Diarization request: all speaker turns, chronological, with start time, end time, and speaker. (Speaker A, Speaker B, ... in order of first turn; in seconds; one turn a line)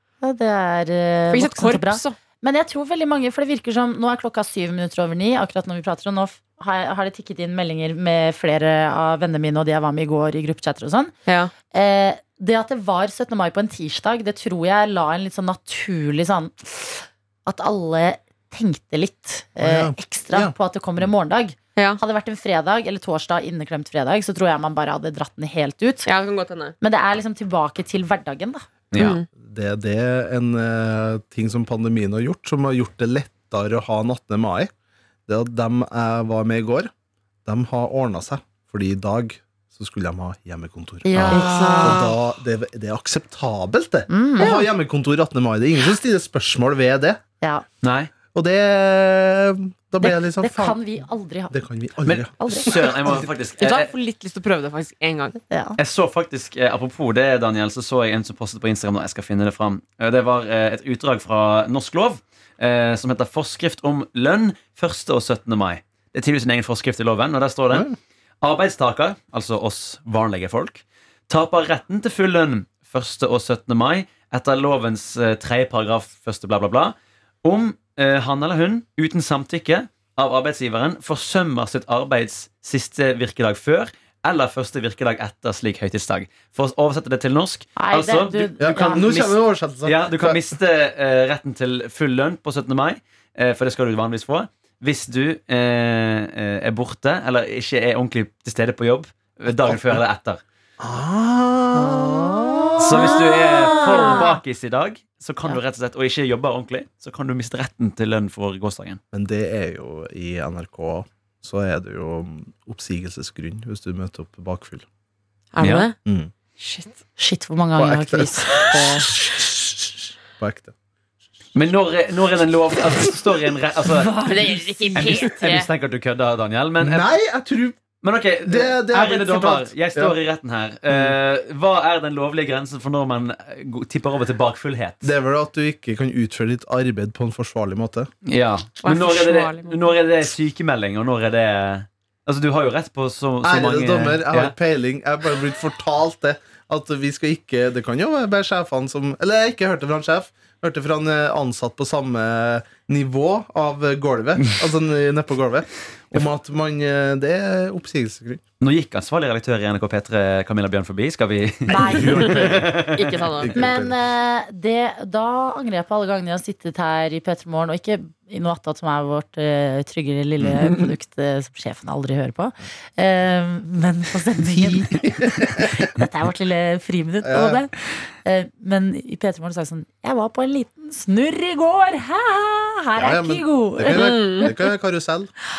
Speaker A: 0.2-11.1
Speaker B: 1.3-2.2
Speaker B: 11.2-11.5
Speaker A: 11.7-26.1
Speaker C: 19.6-20.5
Speaker B: 21.8-22.0
Speaker B: 26.0-26.7
Speaker A: 26.8-28.6
Speaker D: 28.9-29.2
Speaker B: 28.9-29.2
Speaker C: 29.4-34.7
Speaker C: 35.3-36.9
Speaker C: 37.5-47.2
Speaker A: 41.0-42.1
Speaker B: 41.3-42.1
Speaker A: 44.1-44.6
Speaker D: 47.8-48.1
Speaker C: 48.3-50.8
Speaker A: 50.0-51.5
Speaker C: 51.5-53.2
Speaker D: 52.0-53.9
Speaker A: 52.4-52.9
Speaker B: 53.6-55.4
Speaker A: 55.5-55.8
Speaker D: 55.8-67.9
Speaker D: 68.4-100.4
Speaker A: 87.8-89.0
Speaker C: 88.6-90.4
Speaker C: 99.6-100.0
Speaker C: 100.8-103.5
Speaker A: 102.1-104.4
Speaker D: 102.8-109.0
Speaker C: 109.1-114.8
Speaker B: 115.5-116.0
Speaker D: 115.6-115.9
Speaker C: 116.0-116.3
Speaker B: 116.6-117.0
Speaker A: 117.2-119.1
Speaker C: 117.8-120.7
Speaker D: 121.5-124.4
Speaker B: 124.1-125.7
Speaker A: 124.2-125.1
Speaker D: 124.9-127.1
Speaker C: 126.8-127.8
Speaker D: 128.0-135.1
Speaker C: 128.4-130.1
Speaker C: 130.9-131.1
Speaker C: 135.0-138.1
Speaker D: 138.2-144.5
Speaker B: 138.8-139.9
Speaker C: 143.4-158.4
Speaker D: 158.6-163.3
Speaker C: 161.7-162.8
Speaker A: 161.7-162.3
Speaker B: 162.9-163.6
Speaker C: 163.4-163.9
Speaker A: 163.6-184.6
Speaker C: 174.7-175.9
Speaker C: 177.2-177.6
Speaker C: 183.0-185.3
Speaker B: 183.9-184.5